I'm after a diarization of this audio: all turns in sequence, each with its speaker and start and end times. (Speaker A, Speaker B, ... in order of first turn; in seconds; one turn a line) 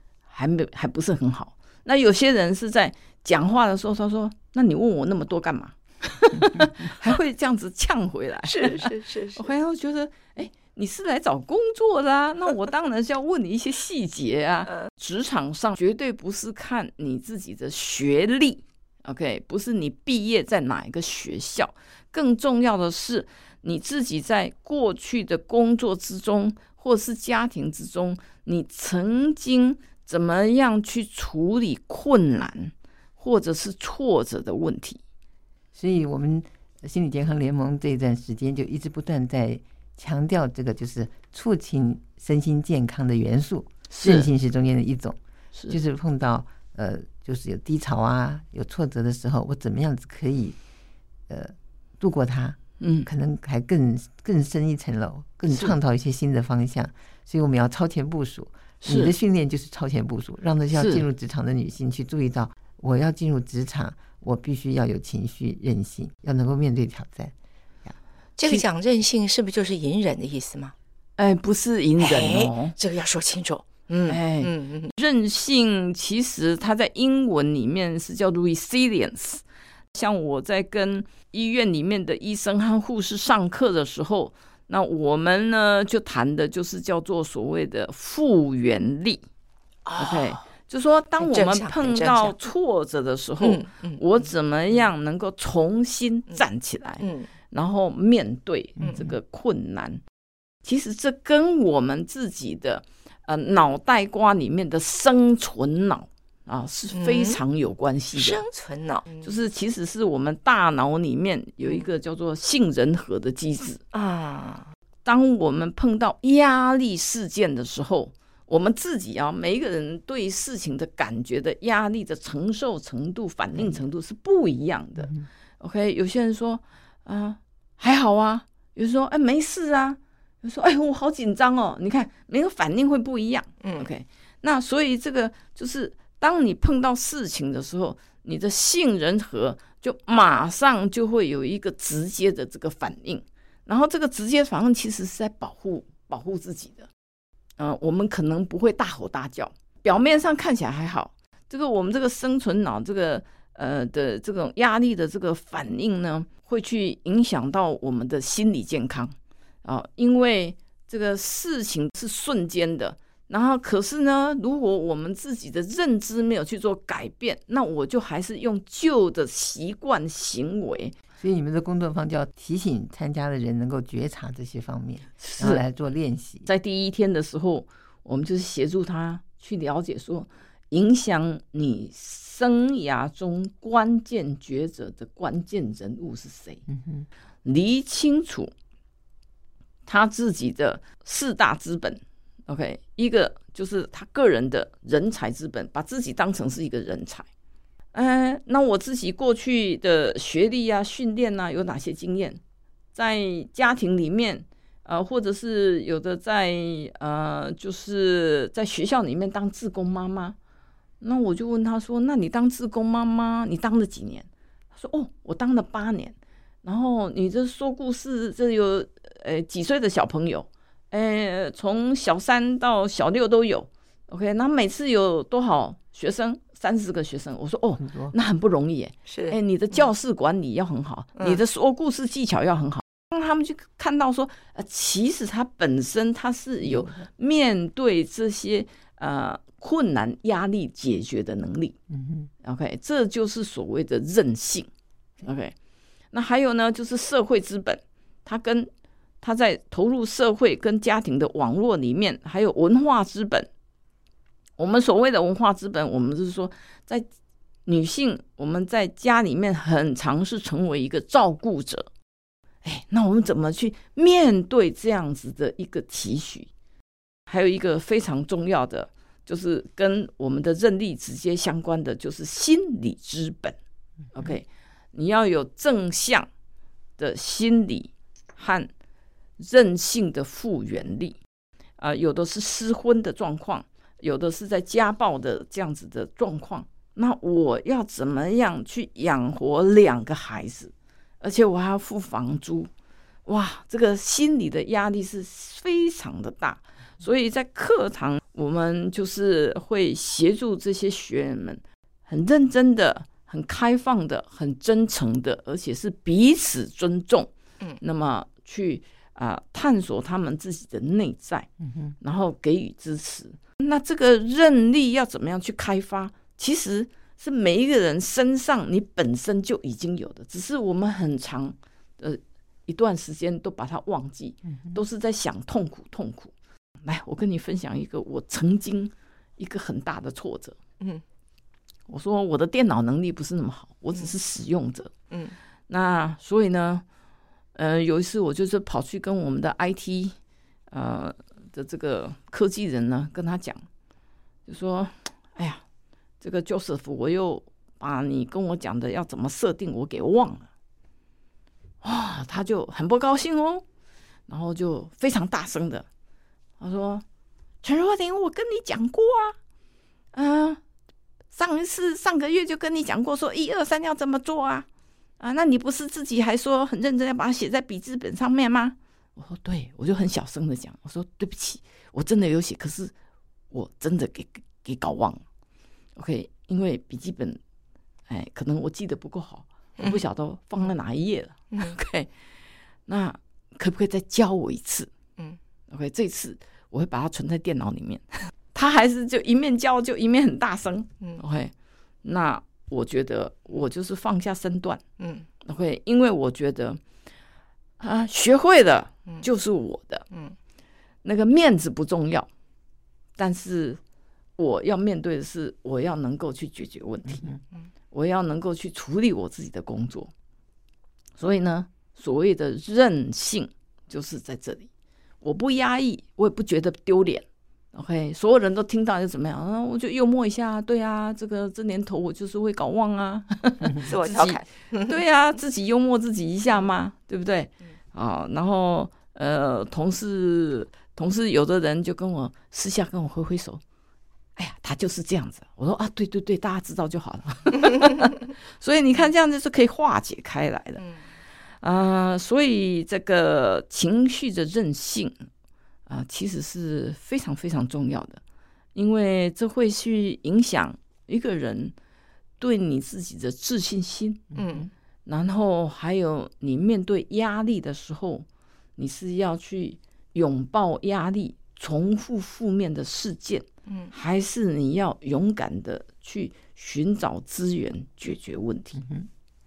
Speaker A: 0.3-35.0
Speaker B: 8.5-9.5
Speaker C: 35.7-45.2
Speaker A: 43.9-44.3
Speaker C: 45.7-50.6
Speaker C: 51.3-67.3
Speaker A: 52.8-53.1
Speaker A: 58.8-59.1
Speaker A: 60.7-61.0
Speaker B: 68.4-70.8
Speaker A: 71.2-72.8
Speaker B: 72.0-74.9
Speaker A: 74.1-79.4
Speaker A: 79.9-89.2
Speaker B: 89.8-90.4
Speaker A: 90.0-100.0
Speaker B: 91.2-92.4
Speaker B: 93.4-94.2
Speaker B: 97.0-97.3
Speaker C: 98.8-99.1
Speaker A: 100.6-108.5
Speaker B: 106.9-107.4
Speaker B: 108.1-109.3
Speaker A: 109.2-113.8
Speaker B: 113.9-114.7
Speaker A: 115.0-146.9
Speaker B: 133.6-133.9
Speaker A: 147.6-171.0
Speaker C: 171.2-176.5
Speaker A: 175.2-175.6
Speaker A: 176.5-186.7
Speaker C: 186.7-187.1
Speaker A: 187.4-188.5
Speaker A: 189.9-197.3
Speaker A: 197.9-202.4
Speaker A: 202.9-210.4
Speaker A: 211.0-241.8
Speaker C: 227.8-228.2
Speaker B: 229.1-229.4
Speaker C: 241.9-242.3
Speaker A: 242.4-244.7
Speaker A: 245.2-245.6
Speaker A: 246.1-248.7
Speaker A: 249.2-253.5
Speaker A: 254.6-257.1
Speaker A: 257.7-261.9
Speaker A: 262.6-266.5
Speaker A: 267.3-273.6
Speaker A: 274.1-276.3
Speaker A: 277.0-278.7
Speaker A: 279.4-281.2
Speaker A: 281.8-292.7
Speaker A: 293.3-311.5
Speaker C: 311.6-311.9
Speaker A: 312.0-326.3
Speaker C: 324.5-324.8
Speaker A: 326.9-330.6
Speaker A: 331.9-334.9
Speaker B: 335.1-335.4
Speaker A: 335.7-336.8
Speaker A: 337.6-340.2
Speaker A: 340.7-343.6
Speaker A: 344.5-345.6
Speaker A: 346.2-350.5
Speaker A: 351.8-353.6
Speaker A: 354.3-355.9
Speaker A: 356.6-357.0
Speaker A: 357.6-359.4
Speaker A: 360.1-360.6
Speaker A: 361.3-364.7
Speaker A: 365.2-372.9
Speaker A: 373.5-375.2
Speaker A: 376.0-377.4
Speaker A: 378.1-382.1
Speaker A: 382.9-384.9
Speaker A: 385.7-391.5
Speaker A: 392.0-394.8
Speaker B: 395.0-395.3
Speaker A: 395.4-396.8
Speaker A: 397.8-400.1
Speaker A: 401.0-402.3
Speaker A: 403.2-403.8
Speaker A: 404.4-407.3
Speaker C: 407.1-407.4
Speaker A: 407.9-410.1
Speaker A: 411.2-414.7
Speaker A: 415.2-433.6
Speaker B: 423.9-425.0
Speaker A: 434.4-440.9
Speaker A: 441.6-445.1
Speaker A: 445.9-448.2
Speaker A: 448.8-451.8
Speaker A: 452.4-454.4
Speaker B: 454.4-454.7
Speaker A: 455.1-458.3
Speaker A: 458.8-468.8
Speaker B: 463.7-463.9
Speaker C: 468.8-469.1